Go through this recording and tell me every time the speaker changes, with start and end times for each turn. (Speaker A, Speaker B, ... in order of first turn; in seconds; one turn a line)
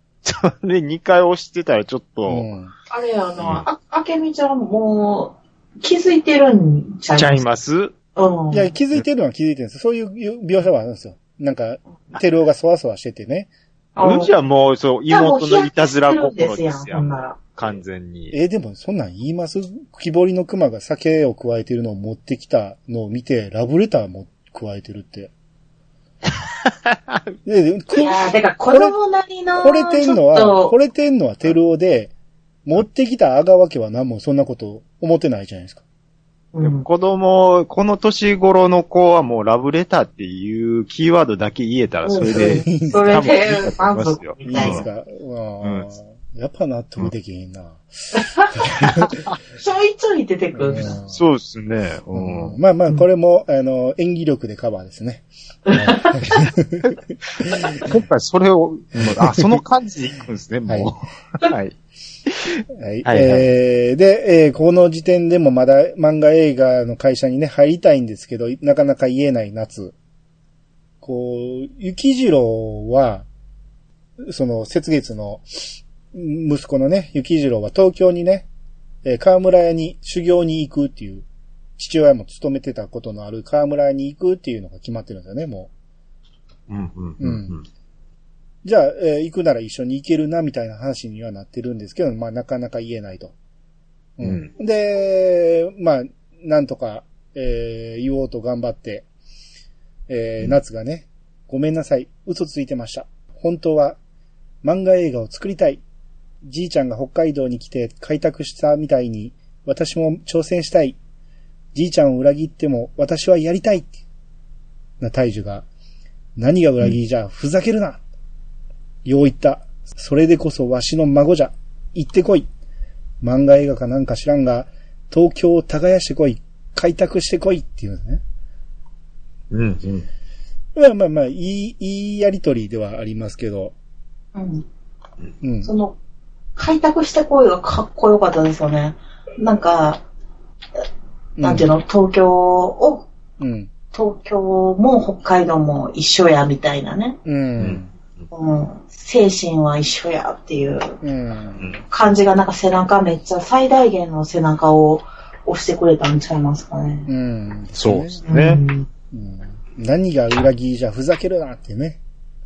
Speaker A: 0.2-2.5
Speaker B: 2.3-2.7
Speaker C: 2.9-7.4
Speaker A: 3.4-3.7
Speaker A: 7.2-7.9
Speaker C: 8.2-8.7
Speaker B: 8.5-13.5
Speaker C: 14.0-14.3
Speaker A: 14.0-18.3
Speaker C: 15.1-17.4
Speaker B: 18.3-25.3
Speaker A: 26.6-27.2
Speaker B: 27.4-28.9
Speaker C: 27.9-30.7
Speaker B: 29.6-32.1
Speaker B: 32.7-35.8
Speaker C: 36.5-36.9
Speaker A: 36.6-44.9
Speaker C: 42.0-44.8
Speaker B: 42.3-43.2
Speaker B: 44.5-49.1
Speaker A: 45.6-45.9
Speaker A: 49.0-49.3
Speaker C: 49.6-51.0
Speaker B: 50.5-51.2
Speaker A: 51.1-52.6
Speaker B: 52.1-57.9
Speaker C: 55.7-56.4
Speaker A: 57.8-61.8
Speaker B: 59.0-59.5
Speaker B: 60.7-60.9
Speaker B: 62.8-70.0
Speaker A: 63.0-63.5
Speaker B: 71.0-73.3
Speaker B: 74.2-75.5
Speaker B: 76.1-78.5
Speaker B: 79.0-81.2
Speaker B: 81.8-85.7
Speaker A: 86.7-87.6
Speaker B: 87.2-87.6
Speaker B: 88.6-93.3
Speaker B: 94.2-99.1
Speaker A: 94.2-94.5
Speaker B: 100.1-104.0
Speaker B: 104.6-105.8
Speaker B: 106.4-111.0
Speaker B: 111.7-114.0
Speaker B: 115.0-115.7
Speaker B: 116.4-118.0
Speaker B: 119.0-122.5
Speaker B: 123.2-128.2
Speaker A: 129.5-130.1
Speaker B: 130.8-133.7
Speaker C: 134.3-134.7
Speaker B: 135.4-135.7
Speaker C: 135.7-135.9
Speaker C: 136.6-140.0
Speaker B: 141.4-141.7
Speaker C: 141.4-143.1
Speaker B: 143.4-143.7
Speaker C: 143.9-147.2
Speaker B: 147.2-147.9
Speaker C: 148.3-151.0
Speaker B: 151.0-151.7
Speaker C: 151.9-157.1
Speaker B: 157.1-158.3
Speaker A: 157.8-158.6
Speaker C: 158.3-158.9
Speaker B: 159.1-162.0